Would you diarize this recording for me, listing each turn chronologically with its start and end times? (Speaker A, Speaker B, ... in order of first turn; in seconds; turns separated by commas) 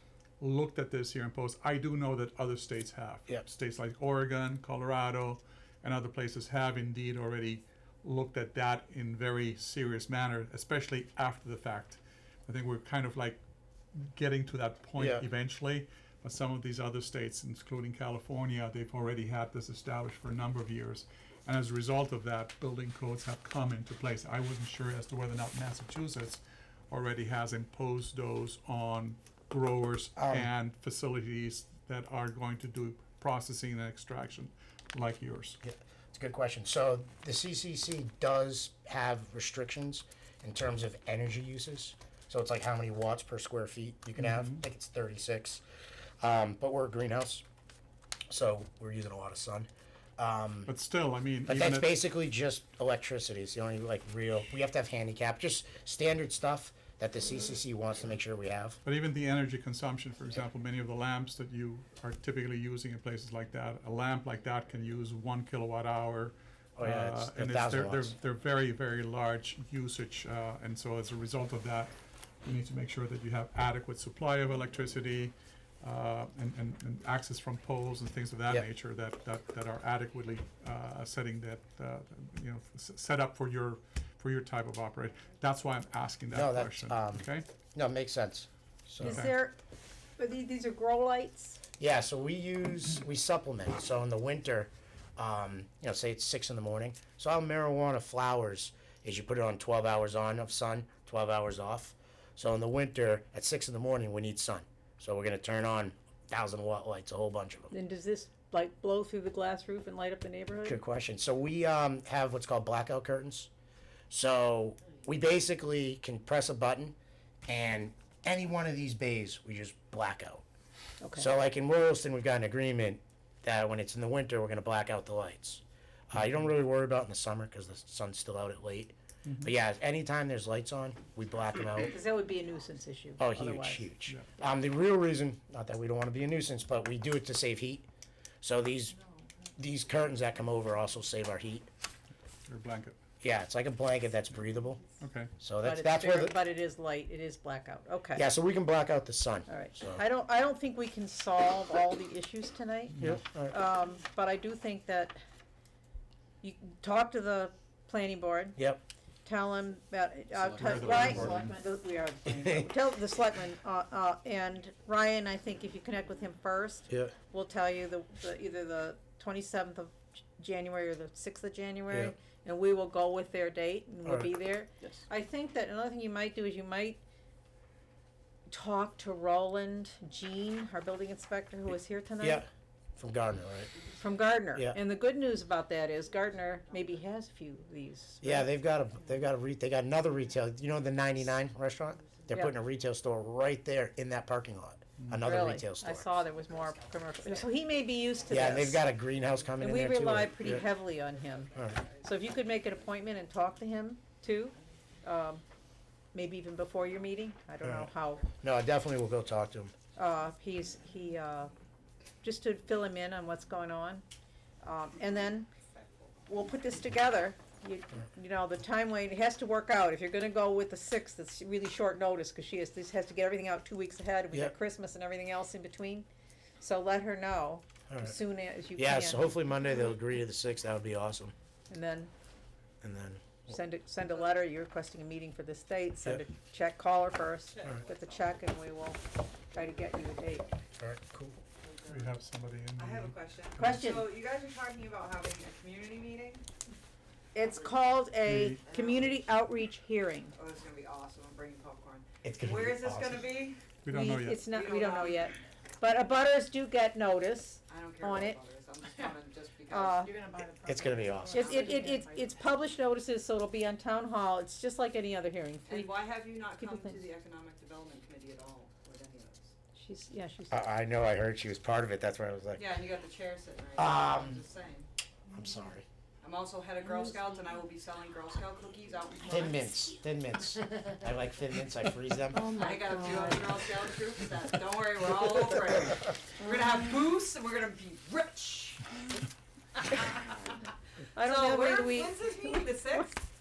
Speaker A: 0.4-13.4, Speaker A: 13.9-35.6, Speaker B: 15.0-15.2, Speaker B: 30.2-30.5, Speaker B: 35.6-45.6, Speaker A: 44.2-44.6, Speaker B: 46.2-47.5, Speaker B: 48.3-50.7, Speaker A: 50.7-51.9, Speaker B: 51.5-58.8, Speaker A: 58.9-87.5, Speaker B: 66.8-68.2, Speaker B: 86.3-89.3, Speaker A: 89.0-89.4, Speaker C: 89.0-89.6, Speaker C: 90.2-91.6, Speaker B: 91.8-107.7, Speaker C: 107.7-110.8, Speaker B: 110.6-113.5, Speaker B: 114.1-120.5, Speaker C: 121.0-121.3, Speaker B: 121.1-131.9, Speaker A: 129.2-129.5, Speaker C: 131.7-133.9, Speaker B: 133.2-137.9, Speaker B: 138.4-139.0, Speaker B: 139.6-141.7, Speaker A: 142.5-143.0, Speaker B: 143.2-144.9, Speaker A: 145.0-145.3, Speaker B: 145.4-146.4, Speaker C: 145.6-148.3, Speaker B: 148.2-150.0, Speaker C: 149.5-155.2, Speaker B: 153.0-153.6, Speaker C: 156.4-158.6, Speaker B: 158.6-158.8, Speaker C: 159.2-177.0, Speaker A: 160.4-161.5, Speaker B: 162.3-162.7, Speaker B: 171.9-172.2, Speaker B: 174.1-174.3, Speaker C: 178.5-182.5, Speaker B: 182.2-182.5, Speaker B: 183.0-183.7, Speaker C: 184.0-188.5, Speaker D: 186.6-186.9, Speaker B: 188.2-196.1, Speaker C: 195.2-198.8, Speaker E: 196.5-197.4, Speaker B: 198.3-200.7, Speaker C: 199.6-201.5, Speaker D: 201.5-202.1, Speaker E: 201.5-202.5, Speaker C: 202.0-205.4, Speaker C: 206.1-208.3, Speaker B: 207.6-209.7, Speaker C: 210.0-211.5, Speaker C: 212.2-214.0, Speaker C: 214.6-215.5, Speaker D: 215.7-216.3, Speaker C: 216.3-226.1, Speaker C: 226.6-229.3, Speaker B: 227.9-228.2, Speaker B: 228.8-231.3, Speaker C: 231.7-232.1, Speaker B: 232.8-233.6, Speaker C: 233.5-240.5, Speaker D: 237.5-238.1, Speaker D: 239.5-239.8, Speaker B: 240.8-241.4, Speaker D: 241.6-242.1, Speaker A: 241.8-243.7, Speaker D: 242.8-246.5, Speaker C: 243.6-244.1, Speaker C: 247.3-250.3, Speaker D: 247.4-247.8, Speaker A: 248.3-248.6, Speaker D: 248.6-249.3, Speaker D: 250.3-253.6, Speaker B: 252.2-253.4, Speaker A: 253.8-254.4, Speaker C: 253.9-258.4, Speaker D: 254.5-255.3, Speaker D: 257.7-260.1, Speaker C: 259.7-260.1, Speaker E: 260.1-262.3, Speaker B: 260.6-261.7, Speaker D: 261.3-261.8, Speaker C: 261.3-266.0, Speaker D: 265.7-269.5, Speaker C: 266.6-267.0, Speaker C: 269.8-270.7, Speaker B: 270.5-272.7, Speaker D: 272.6-274.9, Speaker B: 273.8-274.4, Speaker B: 275.3-275.9, Speaker D: 276.2-279.9, Speaker B: 279.3-282.6, Speaker E: 282.4-283.5, Speaker D: 282.5-289.2, Speaker C: 283.0-283.3, Speaker D: 289.8-290.4, Speaker C: 291.1-293.1, Speaker D: 291.2-293.2